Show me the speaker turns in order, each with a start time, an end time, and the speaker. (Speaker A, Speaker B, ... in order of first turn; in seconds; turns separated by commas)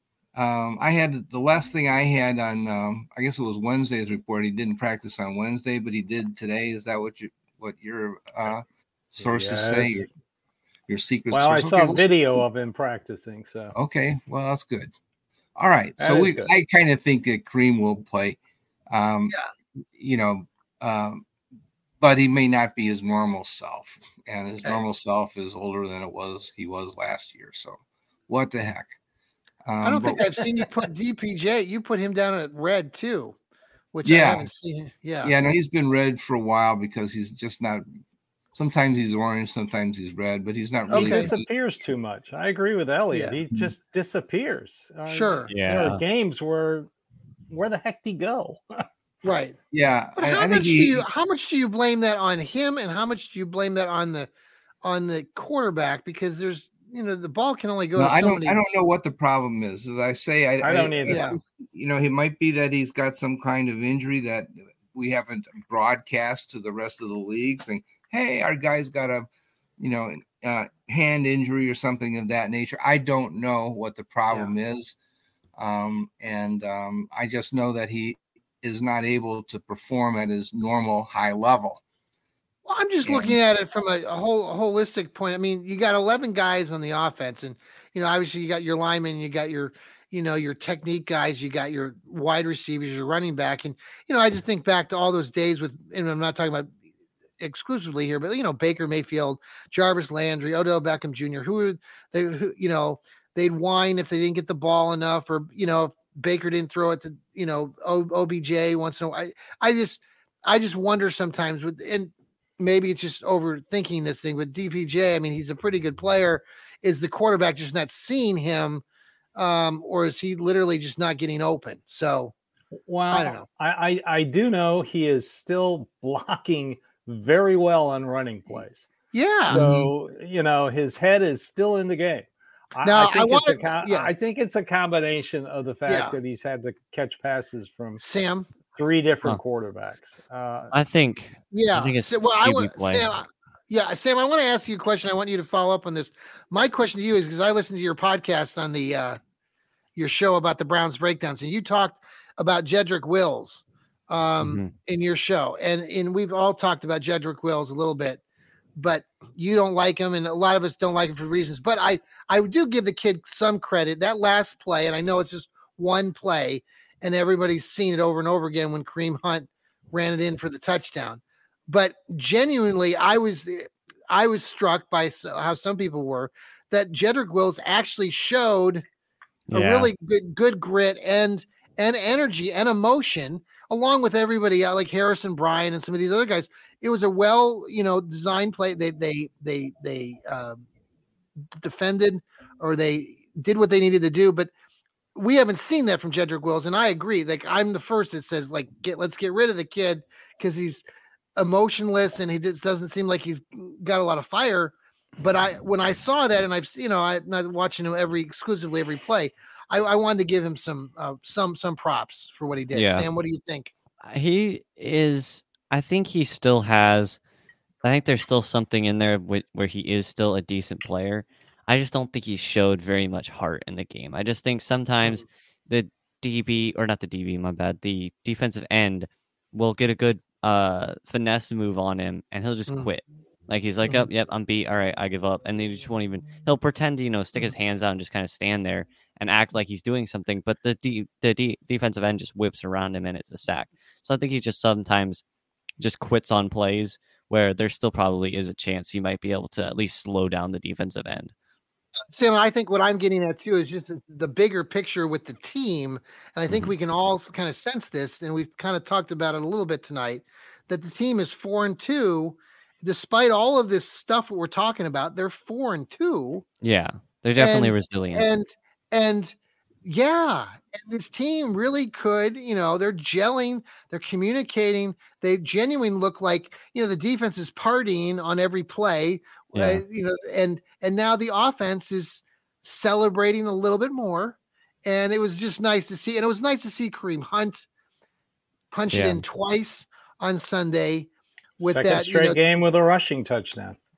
Speaker A: 0.3-10.1, Speaker B: 9.2-10.1, Speaker A: 10.9-12.4, Speaker B: 11.3-13.7, Speaker A: 13.7-14.9, Speaker A: 15.6-18.4, Speaker B: 16.0-16.5, Speaker A: 18.9-19.4, Speaker A: 19.9-21.2, Speaker A: 22.0-28.9, Speaker A: 29.6-30.6, Speaker C: 29.8-33.4, Speaker C: 33.9-35.3, Speaker A: 34.0-34.5, Speaker A: 35.2-37.8, Speaker A: 38.5-41.5, Speaker C: 40.9-41.3, Speaker B: 40.9-46.9, Speaker C: 43.1-43.4, Speaker C: 45.1-45.5, Speaker D: 45.5-46.0, Speaker B: 47.5-48.9, Speaker C: 49.2-49.6, Speaker A: 49.7-51.0, Speaker C: 50.2-54.3, Speaker C: 54.8-58.6, Speaker A: 58.0-69.2, Speaker B: 60.6-61.2, Speaker C: 61.0-61.4, Speaker A: 69.8-75.0, Speaker A: 75.5-81.8, Speaker C: 82.7-96.7, Speaker A: 83.0-83.4, Speaker C: 97.4-118.8, Speaker C: 119.3-122.3, Speaker B: 122.7-128.9, Speaker C: 123.1-123.5, Speaker C: 129.1-129.6, Speaker B: 129.5-138.0, Speaker C: 132.8-134.1, Speaker C: 135.9-136.2, Speaker C: 138.0-138.5, Speaker B: 138.7-140.7, Speaker D: 140.7-143.1, Speaker C: 141.5-149.2, Speaker C: 149.9-158.2, Speaker D: 154.4-154.7, Speaker C: 158.8-178.8, Speaker D: 179.5-179.9, Speaker C: 179.5-190.6, Speaker C: 191.5-194.5, Speaker C: 195.1-200.8, Speaker C: 201.4-213.7, Speaker D: 212.7-213.1, Speaker D: 214.0-217.2, Speaker D: 217.8-245.2, Speaker D: 245.8-251.3, Speaker C: 252.1-266.4, Speaker D: 266.6-268.3, Speaker C: 267.4-287.7, Speaker D: 279.5-279.8, Speaker C: 288.7-292.4, Speaker D: 288.9-289.2, Speaker B: 291.6-293.8